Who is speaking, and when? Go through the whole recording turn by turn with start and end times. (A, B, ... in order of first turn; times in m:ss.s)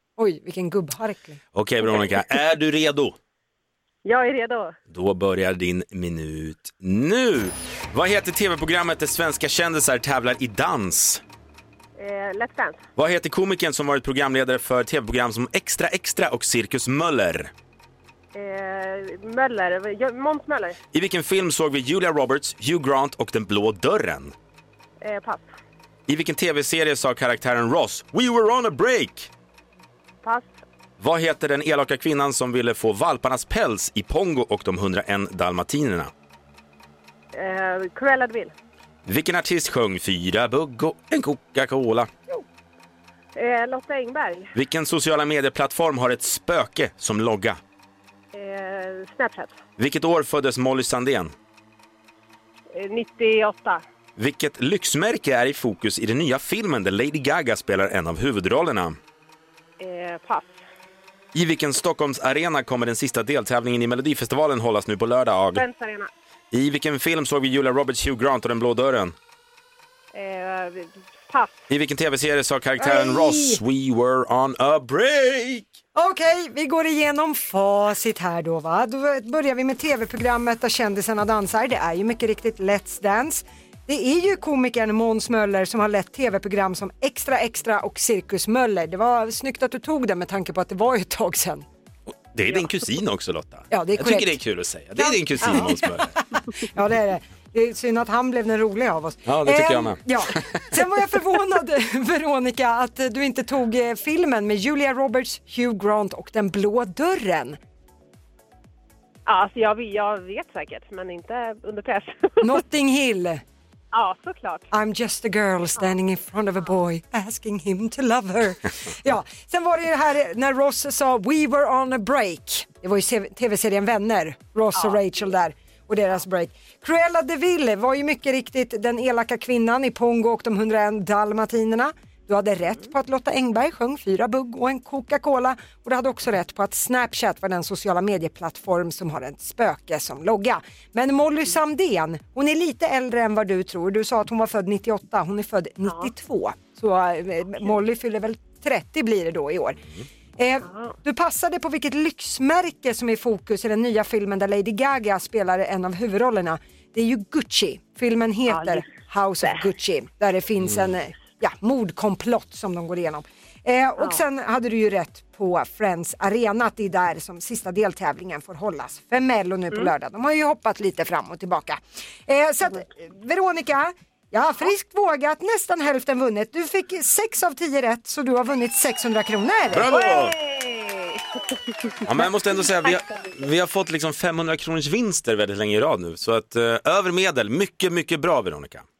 0:00.2-0:01.4 A
0:01.6-0:03.2 B
0:04.0-0:04.8 C
0:04.9-0:11.2 B
0:12.0-0:12.8 C
0:13.0-0:17.5 B
0:18.3-0:20.8 C
0:20.9-0:24.3 B
0:25.0-0:25.5 C
0:26.1-0:29.3 B
0:30.2-0:30.6 C
0:31.0-0:36.1 B
0:37.3-0:38.5 C
0:39.1-0:42.1 B
0:43.4-0:44.5 C
0:44.6-0:47.6 B
0:48.3-0:49.6 C
0:49.8-0:51.3 B
0:52.7-0:53.8 C
0:54.2-0:59.0 B
0:59.8-1:00.6 C
1:01.3-1:05.6 B
1:05.6-1:06.1 C
1:06.5-1:09.2 B
1:10.1-1:11.5 C
1:11.7-1:15.7 B
1:12.8-1:13.6 A
1:16.0-1:31.7 A
1:32.1-1:36.2 B
1:33.7-1:34.4 A
1:35.0-1:35.9 A
1:36.5-1:47.6 A
1:39.3-1:40.6 B
1:49.3-1:52.6 C
1:52.4-1:53.4 A
1:53.9-1:54.7 C
1:54.7-2:29.8 A
2:25.8-2:26.1 C
2:30.4-2:59.9 A
2:30.6-2:31.0 C
2:38.5-2:38.8 C
2:44.0-2:44.2 C
2:59.7-3:00.4 B
2:59.9-3:03.4 C
3:02.0-3:08.8 B